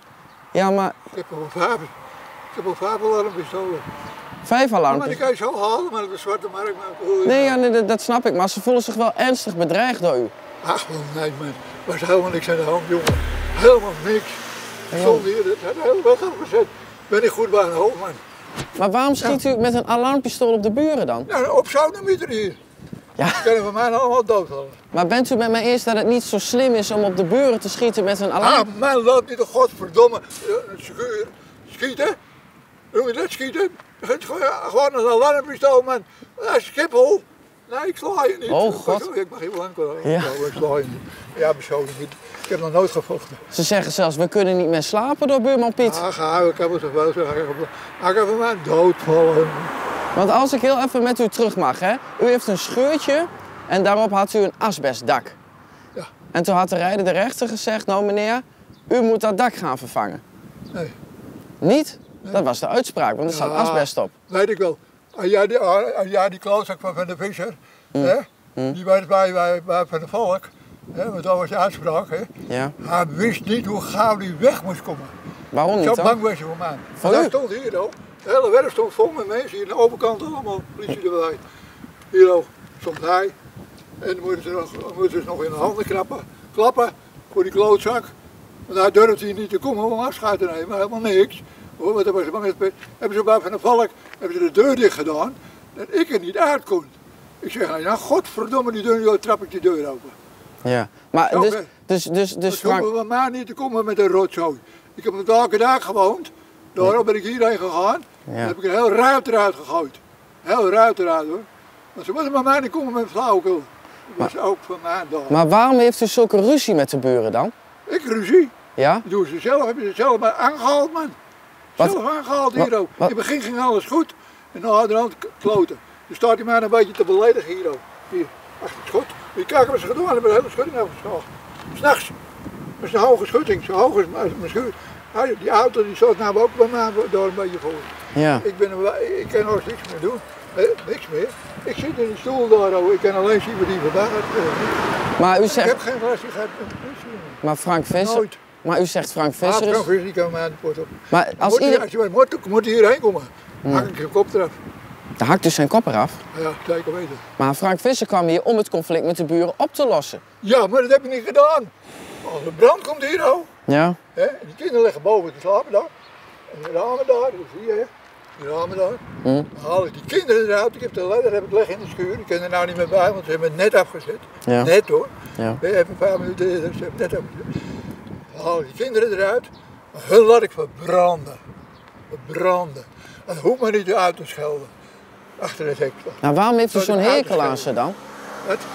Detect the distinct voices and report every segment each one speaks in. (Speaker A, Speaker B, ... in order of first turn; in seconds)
Speaker A: 0.5-1.0, 4.4-5.2, 7.2-10.3, 14.9-15.2, 18.8-21.3, 23.2-23.5, 24.9-28.6, 38.5-39.1, 40.0-40.5, 43.5-46.0, 50.1-55.4, 56.3-60.2, 61.6-64.1, 67.9-68.8, 72.5-72.7, 75.5-76.2, 77.0-77.3, 100.6-102.9, 108.3-108.5, 115.3-117.5, 118.8-119.0, 122.5-123.1, 138.1-138.4, 145.2-145.8, 147.4-149.9, 151.1-151.8, 153.6-153.9, 155.2-156.2, 157.4-160.2, 163.7-164.0, 174.4-174.7, 186.2-188.0
Speaker B: 1.1-1.9, 2.5-3.9, 4.9-7.6, 10.6-18.2, 21.3-22.6, 23.3-24.8, 28.4-32.2, 32.9-43.4, 45.8-49.7, 63.3-75.1, 75.7-81.4, 82.1-83.3, 84.0-88.1, 88.7-100.2, 101.3-101.7, 102.5-115.4, 117.9-121.2, 121.8-132.1, 132.8-144.8, 145.4-147.4, 147.9-148.4, 149.4-154.6, 156.3-157.2, 160.4-161.7, 162.2-163.5, 164.1-165.9, 166.5-169.0, 169.5-177.5, 178.3-181.4, 182.1-184.7, 185.4-187.7